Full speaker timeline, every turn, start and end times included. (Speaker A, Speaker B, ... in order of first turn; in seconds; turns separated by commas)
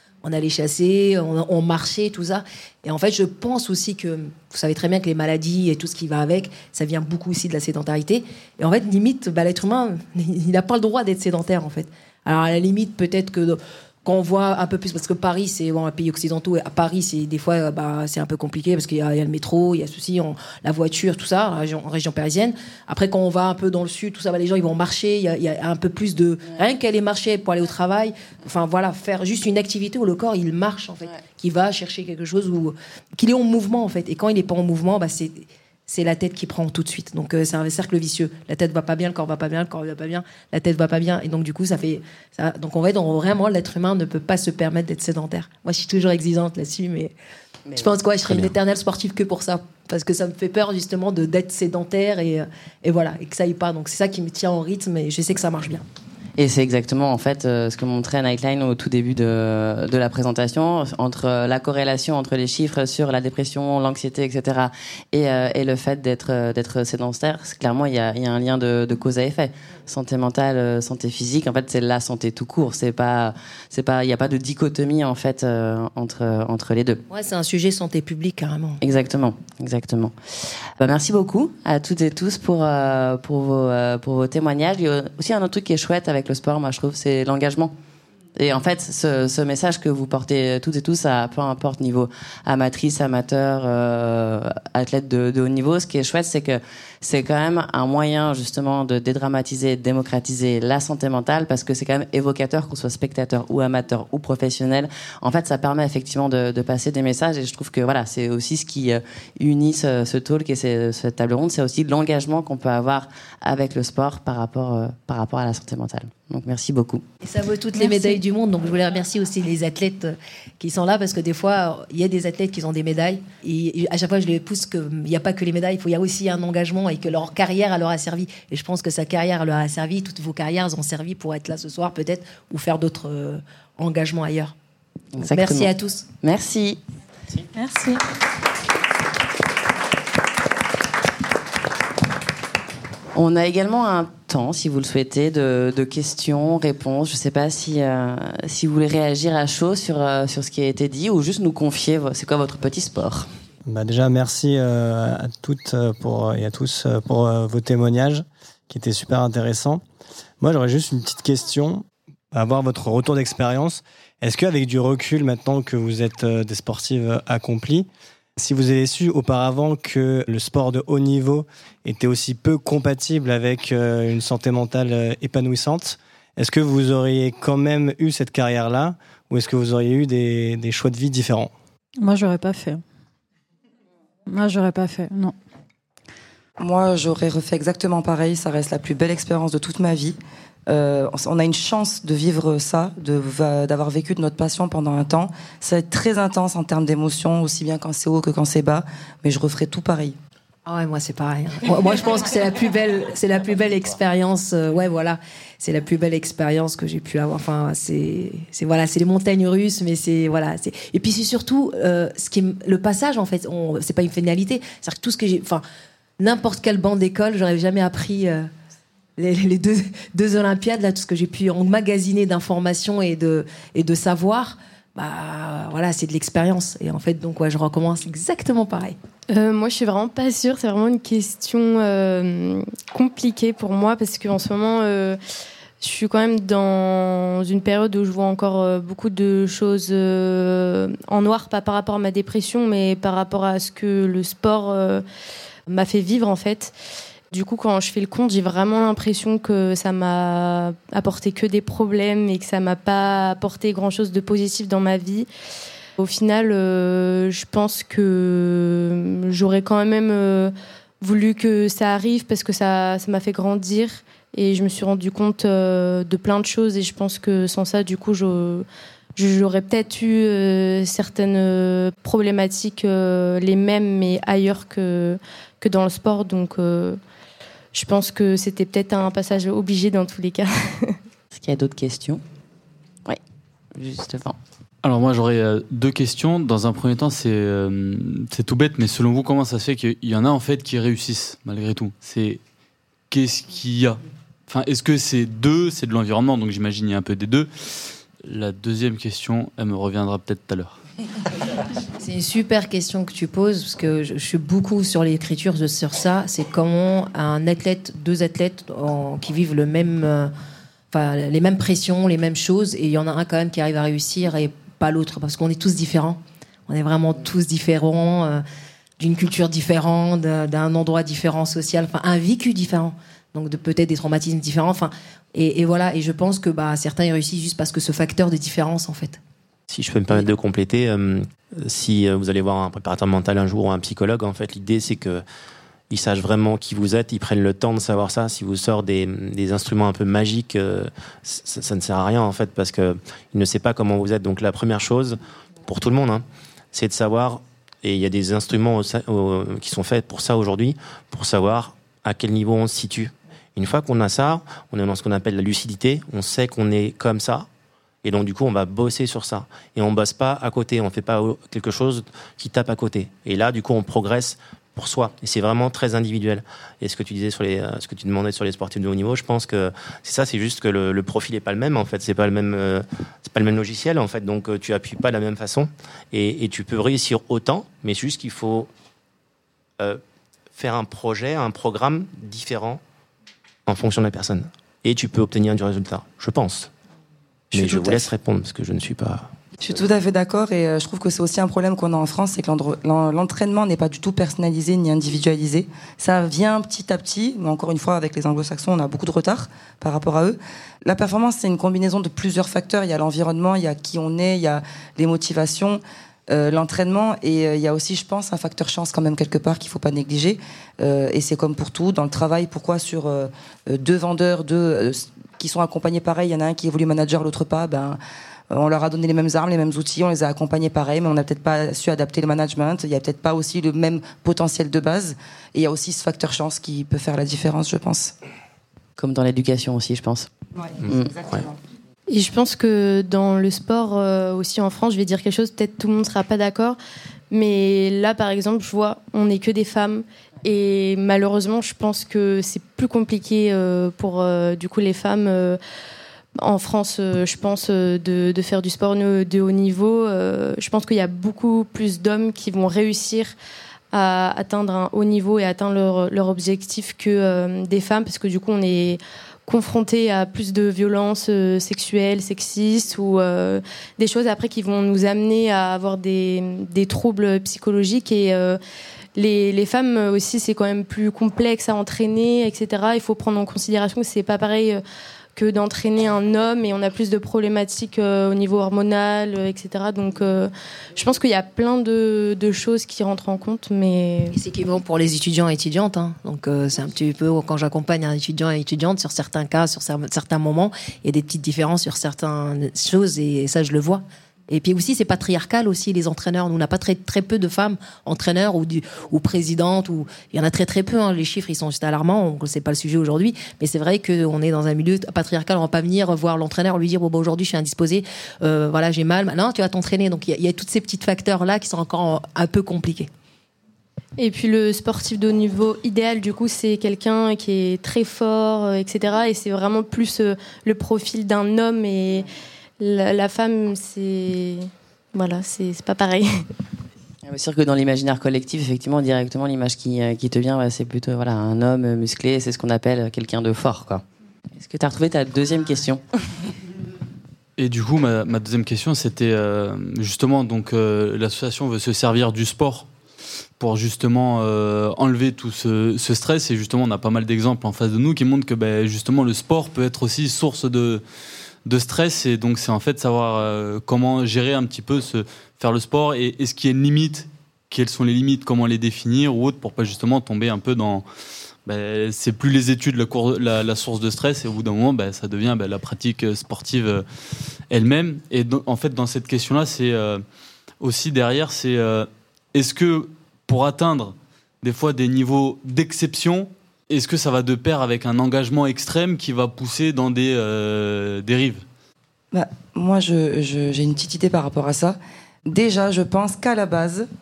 Speaker A: 0.2-47.1, Speaker A: 47.7-55.8, Speaker B: 56.4-77.0, Speaker A: 77.1-78.8, Speaker B: 78.8-80.1, Speaker B: 80.8-87.7, Speaker B: 88.3-117.0, Speaker A: 117.2-134.5, Speaker B: 135.1-136.8, Speaker A: 135.2-136.1, Speaker C: 137.5-138.0, Speaker B: 143.1-153.3, Speaker D: 153.7-159.8, Speaker D: 160.4-181.5, Speaker C: 182.0-182.8, Speaker C: 184.3-185.3, Speaker E: 186.6-200.2, Speaker A: 200.7-215.6, Speaker A: 216.2-218.5, Speaker A: 219.2-229.0, Speaker F: 229.3-235.2, Speaker F: 235.8-245.0, Speaker F: 245.7-246.7, Speaker F: 247.3-255.3, Speaker F: 256.0-277.0, Speaker F: 277.7-281.0, Speaker B: 281.3-282.2, Speaker B: 283.7-284.4, Speaker G: 284.8-292.4, Speaker G: 293.1-297.5, Speaker G: 298.2-300.8, Speaker A: 302.0-310.3, Speaker A: 310.9-318.4, Speaker A: 319.0-329.2, Speaker H: 329.7-335.2, Speaker H: 335.9-357.5, Speaker H: 358.0-378.7, Speaker H: 380.5-382.8, Speaker H: 383.6-386.7, Speaker H: 387.5-389.3, Speaker E: 387.5-388.0, Speaker E: 389.6-418.0, Speaker E: 418.5-428.1, Speaker B: 429.0-430.3, Speaker E: 430.6-431.5, Speaker F: 432.1-436.8, Speaker F: 437.3-445.6, Speaker F: 446.4-453.3, Speaker F: 453.9-468.6, Speaker F: 469.1-474.8, Speaker F: 475.4-484.4, Speaker A: 484.3-513.1, Speaker F: 514.2-522.3, Speaker F: 522.8-526.5, Speaker B: 527.2-534.0, Speaker B: 534.6-536.0, Speaker G: 537.6-542.9, Speaker G: 543.6-551.0, Speaker G: 551.6-561.0, Speaker G: 561.6-567.0, Speaker G: 567.7-570.2, Speaker G: 570.8-581.6, Speaker E: 582.3-587.1